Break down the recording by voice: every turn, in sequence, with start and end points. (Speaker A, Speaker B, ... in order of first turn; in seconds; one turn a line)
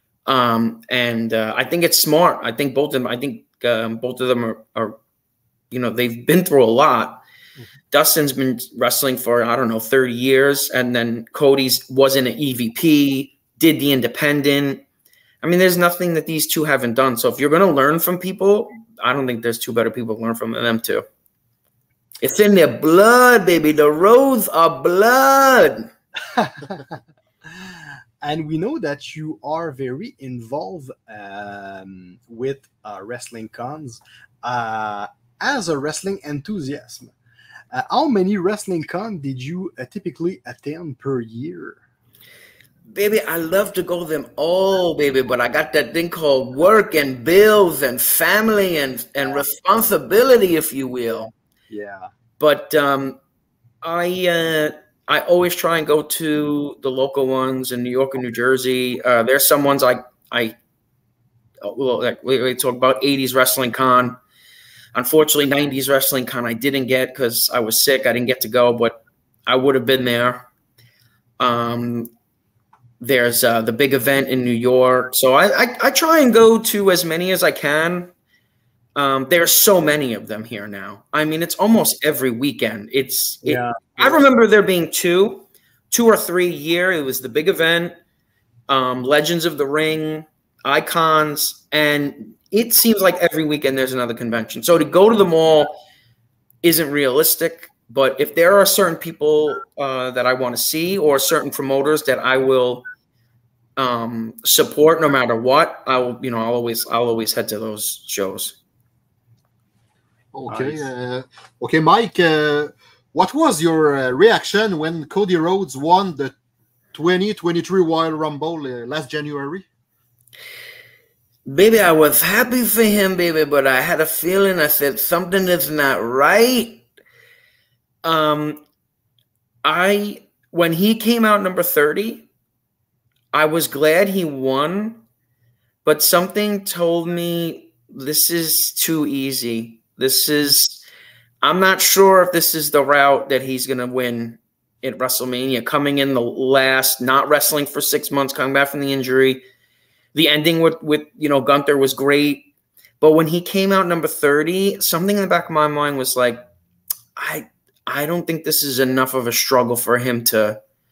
Speaker A: 0.3-5.0
Speaker A: 5.7-7.2
Speaker A: 7.9-14.8
Speaker A: 15.4-21.1
Speaker A: 22.2-25.9
Speaker B: 26.4-26.9
Speaker B: 27.5-37.1
Speaker B: 37.7-41.8
Speaker A: 42.9-51.3
Speaker B: 51.7-52.1
Speaker A: 52.4-53.2
Speaker A: 53.8-60.6
Speaker A: 61.6-64.2
Speaker A: 64.9-70.5
Speaker A: 71.4-72.1
Speaker A: 73.0-78.1
Speaker A: 79.0-87.9
Speaker B: 83.4-84.2
Speaker A: 88.7-95.8
Speaker A: 96.6-102.9
Speaker A: 103.8-108.6
Speaker C: 110.3-116.3
Speaker B: 110.5-110.8
Speaker C: 116.9-119.7
Speaker A: 121.5-126.8
Speaker A: 128.0-128.6
Speaker A: 129.6-132.3
Speaker A: 133.3-135.0
Speaker A: 135.8-140.8
Speaker A: 141.4-149.4
Speaker A: 150.2-152.5
Speaker A: 153.0-156.4
Speaker A: 157.2-160.6